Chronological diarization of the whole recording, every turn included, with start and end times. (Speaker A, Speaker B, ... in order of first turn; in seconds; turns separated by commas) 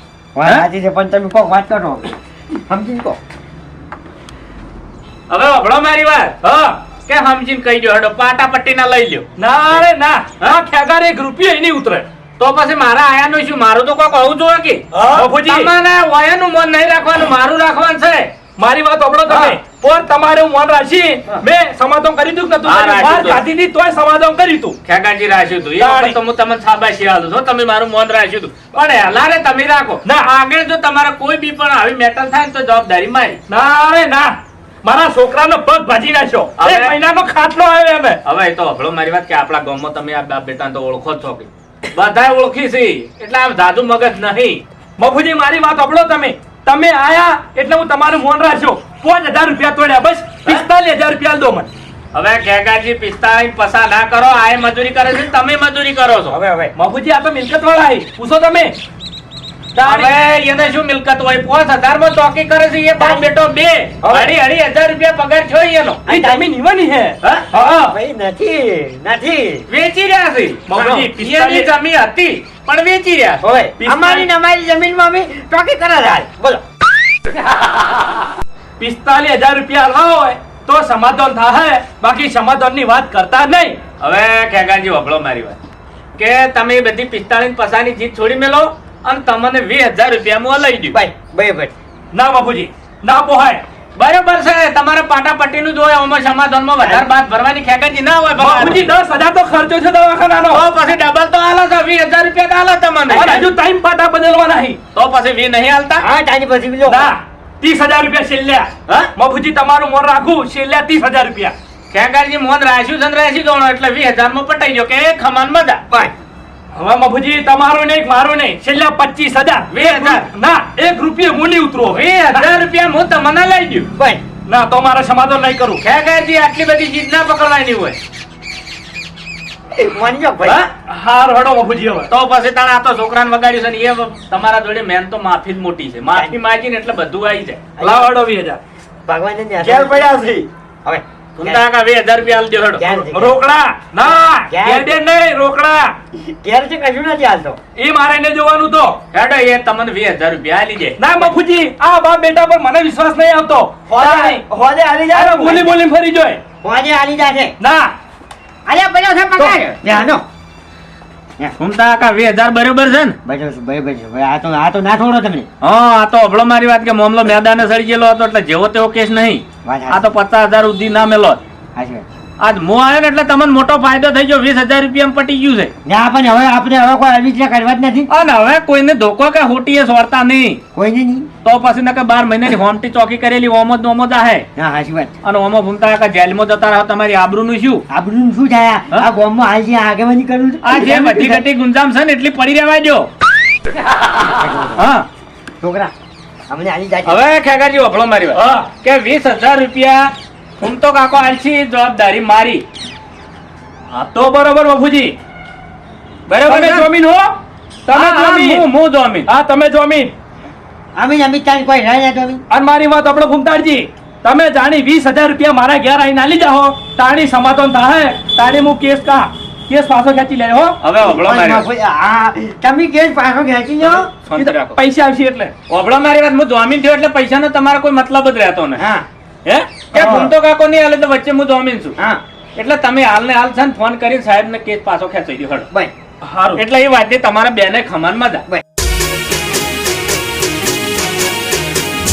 Speaker A: 0.3-2.1, Speaker A: 2.7-3.2, Speaker B: 5.3-6.5, Speaker C: 6.4-6.8, Speaker B: 7.0-9.3, Speaker C: 9.4-12.1, Speaker B: 12.4-18.3, Speaker C: 15.0-15.7, Speaker C: 18.6-24.8, Speaker B: 19.3-19.6, Speaker B: 22.6-23.4, Speaker B: 24.9-33.4, Speaker C: 25.8-26.2, Speaker C: 30.1-30.3, Speaker C: 33.5-38.2, Speaker B: 36.6-37.0, Speaker B: 38.2-44.6, Speaker C: 45.0-51.7, Speaker B: 52.1-56.4, Speaker A: 56.3-56.7, Speaker C: 56.8-58.8, Speaker C: 59.8-60.1, Speaker B: 59.8-66.0, Speaker A: 63.0-63.3, Speaker A: 64.0-64.3, Speaker A: 66.1-66.5, Speaker C: 66.1-67.9, Speaker A: 67.5-69.7, Speaker B: 69.7-73.4, Speaker C: 70.7-71.7, Speaker A: 73.4-76.6, Speaker C: 73.8-74.3, Speaker C: 78.8-83.8, Speaker B: 84.0-85.6, Speaker B: 86.2-91.0, Speaker A: 90.9-91.7, Speaker C: 92.1-93.6, Speaker B: 94.0-98.9, Speaker C: 98.4-100.7, Speaker B: 100.5-103.5, Speaker C: 103.1-104.8, Speaker B: 104.9-106.0, Speaker A: 106.0-107.1, Speaker C: 106.9-111.5, Speaker B: 111.9-115.8, Speaker C: 116.7-122.5, Speaker B: 119.7-120.3, Speaker B: 121.9-123.9, Speaker A: 124.0-124.2, Speaker C: 124.5-125.8, Speaker B: 125.8-128.0, Speaker A: 129.8-130.6, Speaker C: 130.9-132.1, Speaker B: 132.1-137.7, Speaker A: 137.8-138.1, Speaker C: 137.8-138.6, Speaker A: 139.1-140.2, Speaker D: 139.6-140.5, Speaker A: 140.8-141.6, Speaker B: 141.4-143.0, Speaker A: 142.8-143.4, Speaker C: 143.1-145.9, Speaker A: 144.5-144.9, Speaker A: 146.2-147.6, Speaker C: 147.8-149.0, Speaker B: 149.1-151.3, Speaker C: 151.0-154.4, Speaker D: 153.9-155.7, Speaker C: 155.1-156.4, Speaker A: 156.6-157.6, Speaker C: 157.6-157.9, Speaker A: 158.7-160.2, Speaker B: 161.6-163.2, Speaker A: 163.3-165.5, Speaker B: 165.6-171.4, Speaker A: 169.7-170.0, Speaker A: 171.8-172.1, Speaker B: 172.4-175.7, Speaker A: 175.9-178.1, Speaker B: 178.1-180.6, Speaker A: 180.8-181.3, Speaker B: 181.4-184.5, Speaker A: 184.6-185.2, Speaker B: 185.2-187.8, Speaker A: 187.9-191.4, Speaker B: 190.6-193.1, Speaker A: 194.2-194.9, Speaker B: 194.8-195.1, Speaker A: 195.6-195.9, Speaker A: 196.5-197.2, Speaker B: 197.1-202.7, Speaker C: 198.3-198.7, Speaker C: 203.9-205.2, Speaker B: 206.3-206.9, Speaker C: 206.4-207.3, Speaker C: 207.9-208.7, Speaker B: 207.9-209.3, Speaker C: 209.3-210.1, Speaker A: 211.0-212.4, Speaker C: 212.5-220.8, Speaker B: 220.8-221.7, Speaker A: 221.0-224.1, Speaker B: 223.8-224.8, Speaker C: 224.3-225.5, Speaker B: 225.7-228.8, Speaker A: 228.8-229.1, Speaker B: 229.4-232.0, Speaker B: 232.6-235.7, Speaker C: 236.2-236.6, Speaker B: 236.6-238.4